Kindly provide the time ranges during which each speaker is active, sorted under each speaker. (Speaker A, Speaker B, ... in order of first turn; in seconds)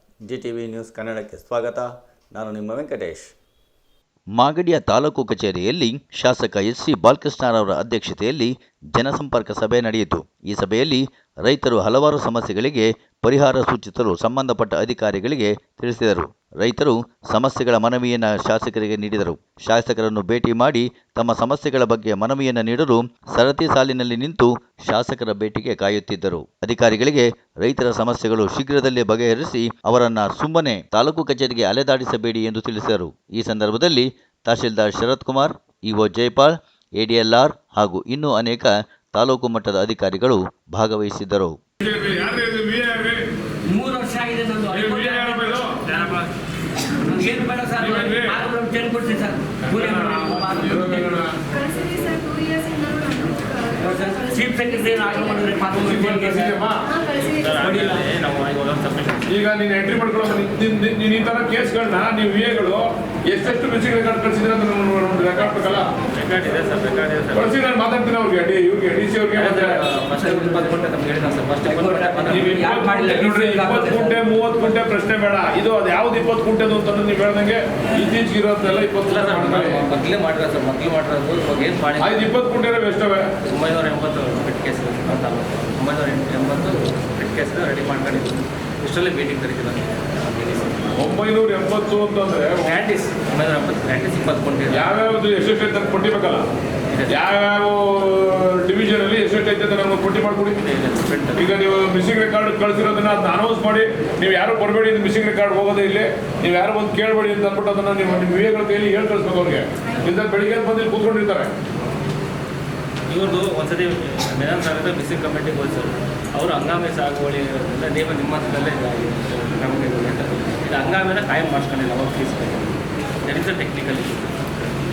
Speaker A: 0.2-1.9, 2.6-3.3
Speaker B: 1.0-1.7, 2.3-2.7, 4.4-41.6
Speaker C: 41.8-43.2, 44.7-45.8, 47.8-48.4, 49.6-51.3, 55.7-56.9, 59.3-65.9, 67.3-69.8, 72.2-79.9, 82.0-83.3, 91.0-92.9, 94.7-96.5, 97.1-100.6, 101.3-111.5
Speaker D: 43.7-45.8, 47.0-51.2, 53.8-56.5, 57.6-58.0, 71.7-74.1
Speaker E: 45.9-46.3, 57.3-59.3, 66.1-67.6, 69.3-72.6, 79.0-82.2, 83.5-90.9, 92.6-95.0, 96.9-97.3, 100.6-101.6, 113.1-124.4
Speaker F: 51.5-55.7, 56.8-57.6